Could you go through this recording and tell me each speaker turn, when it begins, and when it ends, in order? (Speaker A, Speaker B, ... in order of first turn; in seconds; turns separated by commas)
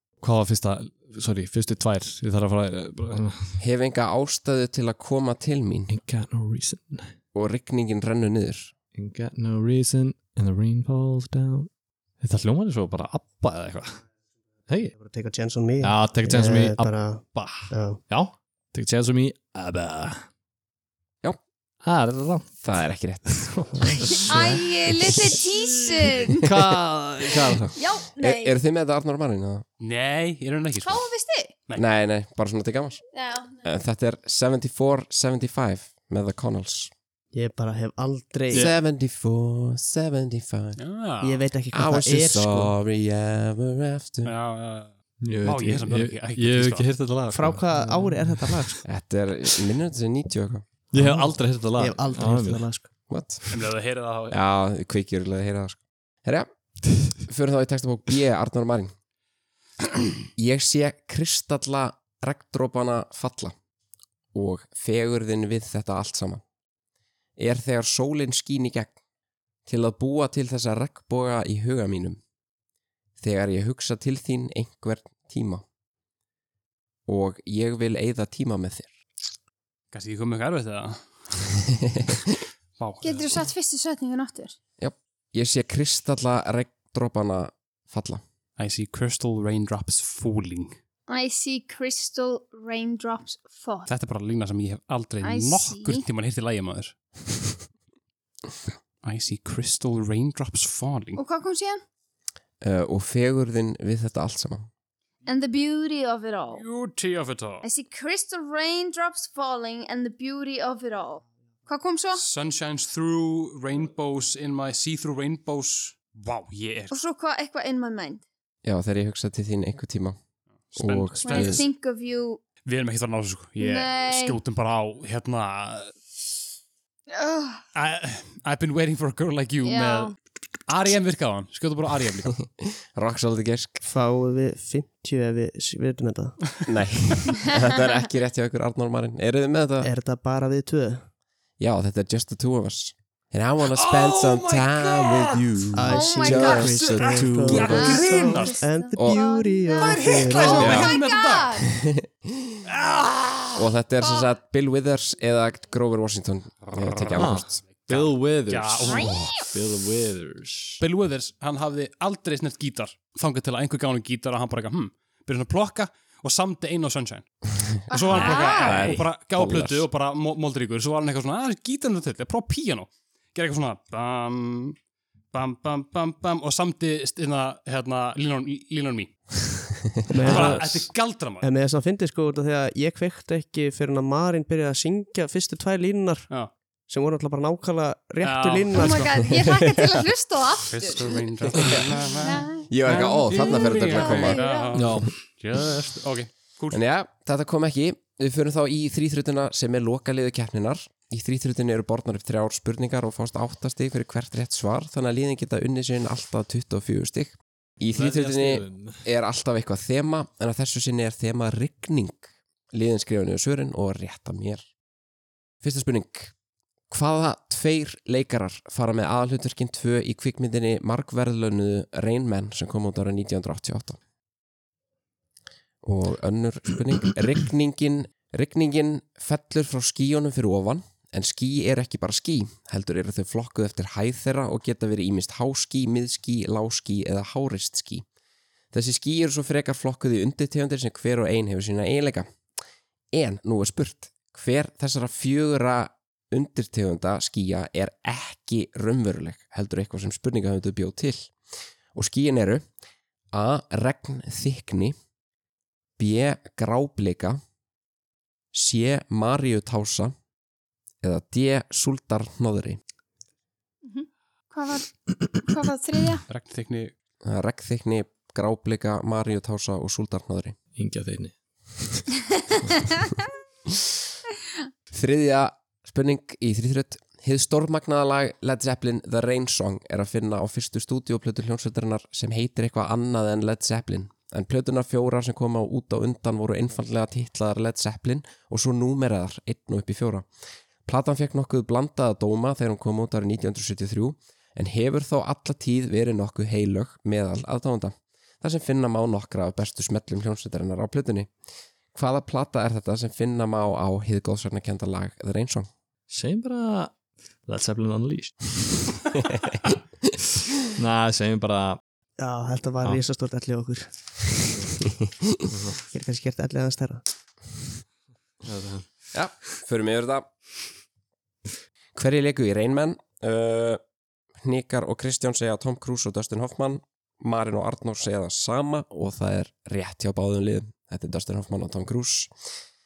Speaker A: 0.2-3.6, Speaker B: 3.6-5.9, Speaker A: 5.9-7.1, Speaker B: 7.3-8.7, Speaker A: 8.9-11.7, Speaker A: 12.2-14.0, Speaker A: 14.7-14.9, Speaker C: 14.9-18.0, Speaker A: 15.8-20.2, Speaker A: 21.8-22.5, Speaker B: 22.6-23.5, Speaker A: 23.2-27.7, Speaker D: 24.1-26.4, Speaker D: 27.8-28.6, Speaker B: 28.2-29.6, Speaker E: 29.8-31.1, Speaker D: 30.8-31.5, Speaker B: 31.7-33.0, Speaker D: 33.1-33.6, Speaker B: 33.6-36.9, Speaker C: 37.3-38.7, Speaker B: 38.5-40.8, Speaker E: 40.8-41.4, Speaker C: 41.2-42.7, Speaker B: 41.7-44.3, Speaker E: 44.2-46.9, Speaker A: 45.2-48.8, Speaker C: 47.3-48.8, Speaker B: 48.8-50.6, Speaker A: 50.9-52.7, Speaker C: 51.0-52.9, Speaker B: 53.1-53.5, Speaker E: 53.5-54.4, Speaker B: 54.3-56.5, Speaker B: 57.1-58.9, Speaker B: 60.4-63.5, Speaker B: 64.3-66.4, Speaker B: 67.4-68.9, Speaker B: 69.7-72.2, Speaker B: 73.2-75.6, Speaker B: 77.1-78.9, Speaker E: 79.9-81.5, Speaker E: 82.8-83.4, Speaker D: 83.0-84.5, Speaker B: 84.8-88.2, Speaker E: 88.6-90.8, Speaker D: 91.1-93.9, Speaker E: 93.9-96.9, Speaker D: 95.2-96.0, Speaker E: 99.0-101.2, Speaker D: 101.2-101.8, Speaker B: 102.6-104.7, Speaker D: 105.2-106.6, Speaker E: 106.5-107.7, Speaker D: 107.6-112.2, Speaker E: 112.2-117.0, Speaker D: 116.9-118.2, Speaker B: 118.6-120.2, Speaker E: 120.7-121.7, Speaker B: 120.8-121.7, Speaker D: 121.2-122.4, Speaker E: 122.6-125.9, Speaker D: 123.6-124.4, Speaker D: 127.1-127.6, Speaker E: 127.7-130.1, Speaker D: 129.6-130.1, Speaker E: 130.7-132.4, Speaker B: 132.6-133.8, Speaker C: 133.8-136.6, Speaker B: 136.7-139.9, Speaker C: 139.8-141.0, Speaker B: 141.6-148.0, Speaker E: 143.7-145.9, Speaker C: 145.7-150.8, Speaker D: 145.8-147.0, Speaker E: 146.6-148.6, Speaker A: 147.2-147.6, Speaker D: 147.6-151.7, Speaker B: 148.9-149.2, Speaker E: 149.8-151.7, Speaker B: 150.6-150.9, Speaker B: 152.3-152.6, Speaker E: 152.7-153.6, Speaker B: 153.6-157.5, Speaker E: 156.8-159.2, Speaker A: 157.1-160.8, Speaker D: 158.9-159.2, Speaker B: 159.0-159.3, Speaker E: 160.8-167.2, Speaker E: 167.9-174.8, Speaker D: 167.9-168.9, Speaker B: 168.1-169.8, Speaker E: 175.3-181.5, Speaker C: 180.1-180.9, Speaker C: 181.4-186.3, Speaker C: 186.9-189.1, Speaker E: 188.2-189.1, Speaker D: 188.7-191.6, Speaker B: 189.5-190.0, Speaker E: 190.7-196.8, Speaker D: 192.2-194.8, Speaker B: 192.7-194.4, Speaker A: 194.7-195.1, Speaker B: 196.7-214.7, Speaker A: 207.9-209.0, Speaker B: 215.6-216.3, Speaker B: 216.9-224.0, Speaker B: 225.8-238.0, Speaker B: 238.7-242.3, Speaker B: 243.1-251.3, Speaker B: 251.9-252.7, Speaker B: 253.3-254.9, Speaker B: 256.0-257.4, Speaker B: 258.5-260.1, Speaker B: 261.0-262.8, Speaker D: 263.9-266.2, Speaker E: 266.3-266.9, Speaker B: 267.2-270.6, Speaker A: 270.7-271.3, Speaker B: 274.9-290.3, Speaker B: 290.9-301.3, Speaker B: 301.9-305.7, Speaker A: 306.1-306.9, Speaker A: 307.4-309.0, Speaker A: 310.8-311.8, Speaker C: 312.2-314.8, Speaker A: 315.5-315.8, Speaker C: 315.8-317.0, Speaker A: 318.4-318.9, Speaker B: 319.1-320.3, Speaker B: 321.9-323.8, Speaker B: 324.4-332.3